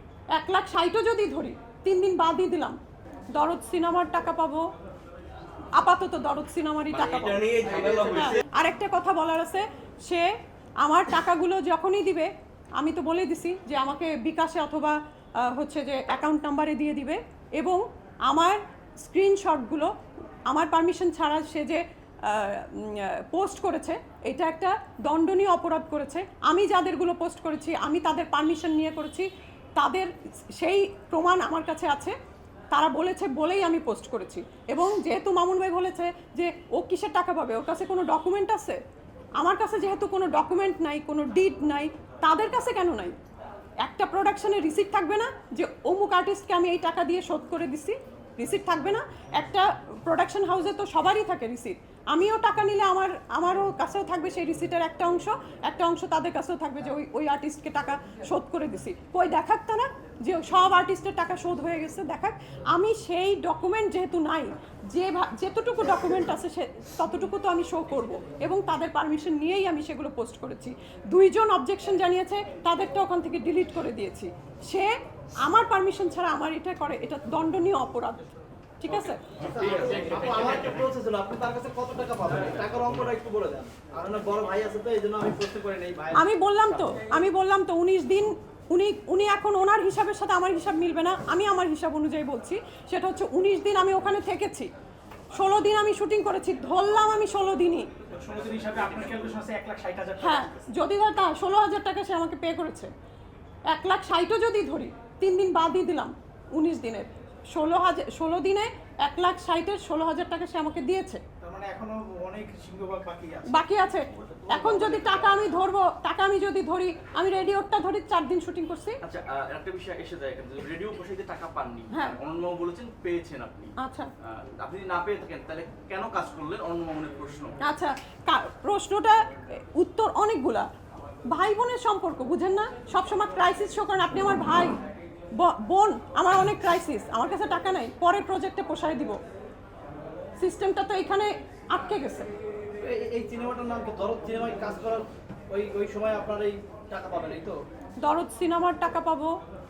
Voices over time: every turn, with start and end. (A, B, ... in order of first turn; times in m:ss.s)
0:00.3-0:02.8 A
0:03.3-0:04.7 A
0:05.8-0:10.3 A
0:06.9-0:08.4 B
0:10.8-0:19.9 A
0:20.5-0:32.2 A
0:32.7-0:38.8 A
0:39.4-0:43.2 A
0:43.8-1:14.9 A
1:15.4-1:18.2 A
1:18.8-1:19.3 A
1:19.4-1:26.3 C
1:19.6-1:20.9 B
1:26.2-1:34.7 A
1:35.3-1:37.9 A
1:38.1-1:40.6 D
1:40.2-1:42.9 A
1:43.7-1:51.2 A
1:51.4-1:53.6 D
1:53.5-1:59.0 A
1:54.7-1:55.2 D
1:54.9-1:55.3 B
1:59.0-2:03.7 B
2:01.9-2:02.2 A
2:03.8-2:04.1 A
2:04.2-2:07.6 B
2:07.6-2:10.7 A
2:11.3-2:14.8 A
2:15.4-2:19.2 A
2:20.4-2:22.3 A
2:22.8-2:27.6 C
2:28.0-2:29.4 A